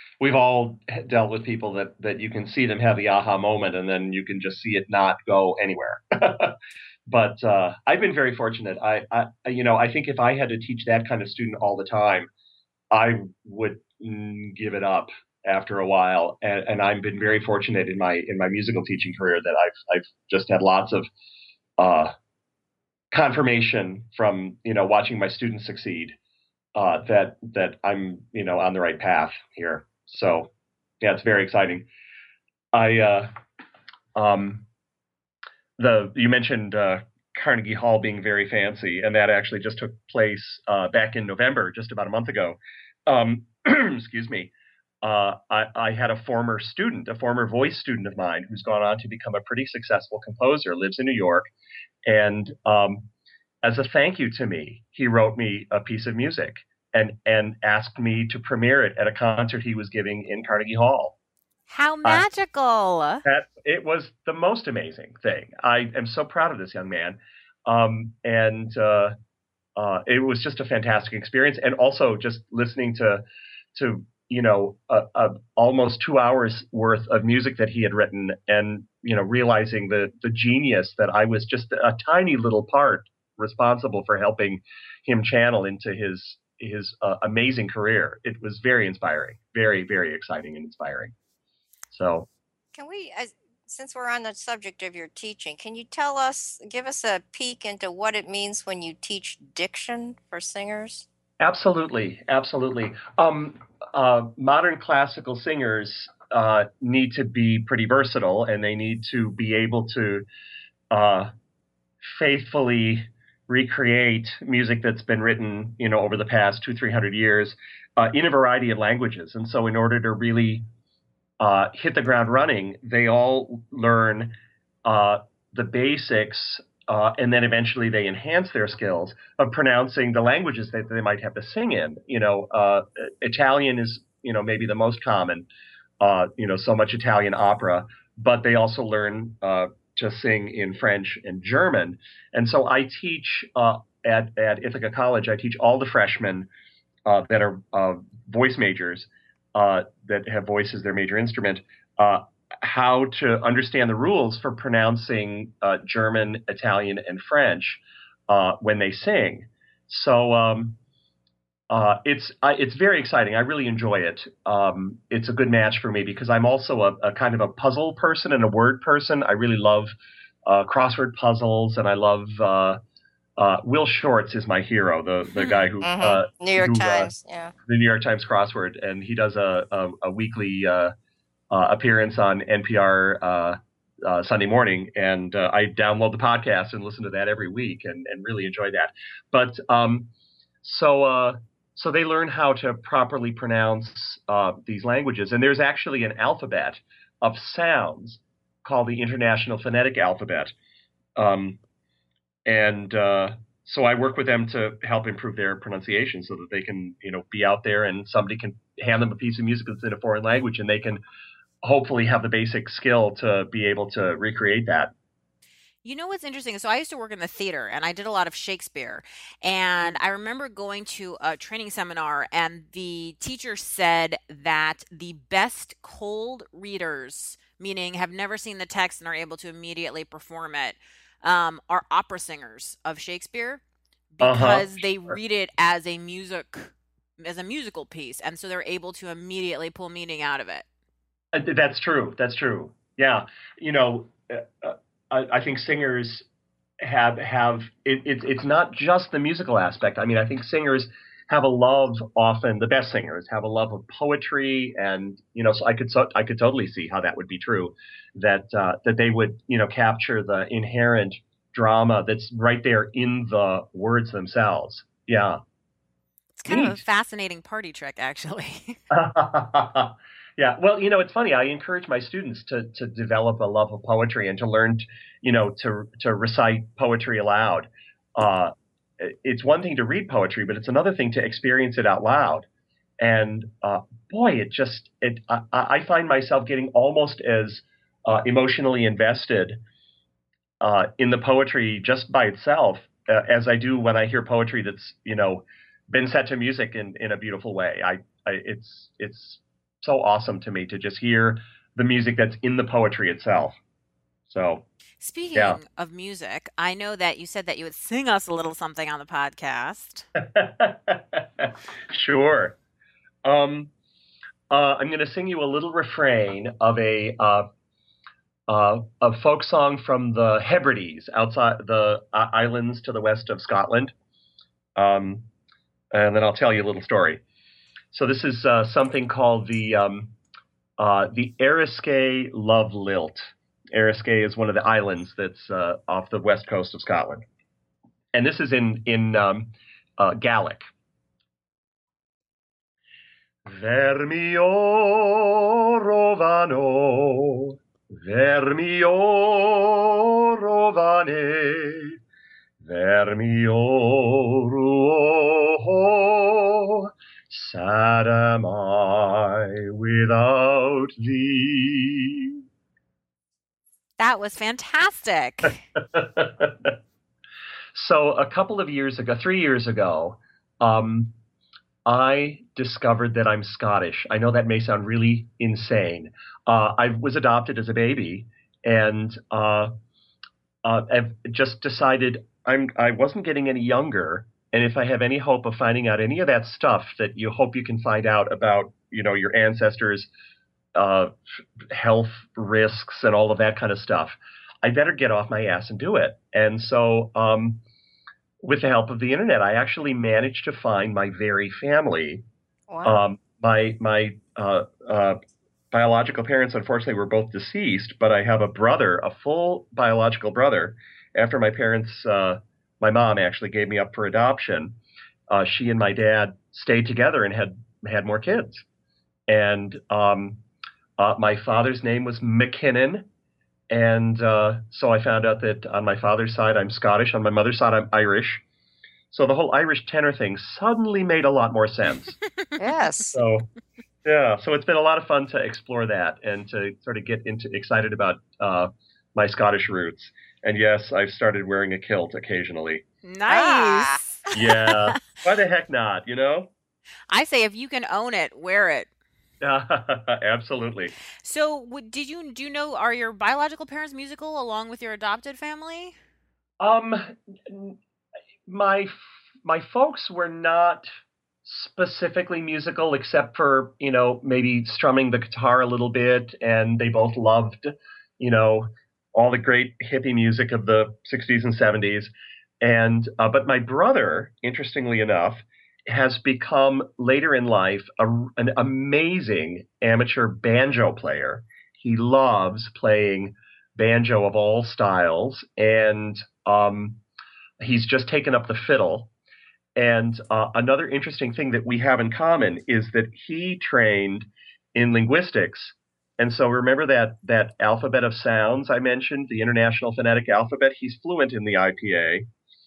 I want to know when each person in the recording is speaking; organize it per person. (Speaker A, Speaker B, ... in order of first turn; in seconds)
Speaker A: 0.2-6.6, 7.1-12.3, 12.9-21.1, 21.8-22.1, 23.1-26.2, 26.8-30.5, 31.0-31.9, 32.7-33.3, 34.1-34.7, 35.8-51.5, 52.1-53.1, 53.6-61.1, 63.2-69.2, 69.8-73.2, 73.8-91.1, 91.9-92.3, 101.4-110.2, 110.9-111.3, 112.0-120.7, 121.4-135.5, 136.0-146.5, 147.1-160.8, 161.7-169.9, 170.5-172.8, 173.4-177.1, 177.7-180.9, 181.5-190.1, 190.6-200.5, 201.2-201.6, 202.5-211.0, 211.6-214.9, 234.2-235.2, 241.3-246.3, 246.8-265.4, 266.5-266.8, 268.9-282.5, 283.0-289.6, 290.6-303.6, 304.3-304.7, 305.4-305.6, 310.2-312.6, 313.2-313.7, 314.5-317.5, 318.5-323.9, 324.8-325.3, 325.9-327.2, 327.9-330.2, 330.8-337.2, 338.1-340.6, 343.5-352.0, 352.6-362.4, 365.9-366.8, 367.7-371.1, 371.9-379.7, 380.6-390.1, 390.8-391.2, 391.7-397.6, 398.4-402.2, 402.9-405.2, 405.7-414.8, 415.3-418.6, 419.3-420.4, 421.0-423.1, 423.7-428.4, 429.1-432.2, 433.1-433.5, 434.1-442.8, 444.3-446.5, 449.4-450.9, 456.6-457.8, 458.5-460.9, 461.4-487.0, 487.6-489.1, 489.8-502.3
Speaker B: 61.7-63.2, 215.8-233.6, 234.1-240.7, 266.4-268.8, 305.0-310.1, 364.0-365.6, 443.0-444.9, 447.1-448.9, 451.2-456.0
Speaker C: 92.8-101.1, 175.4-177.5, 402.7-403.0, 432.6-433.1, 443.3-444.0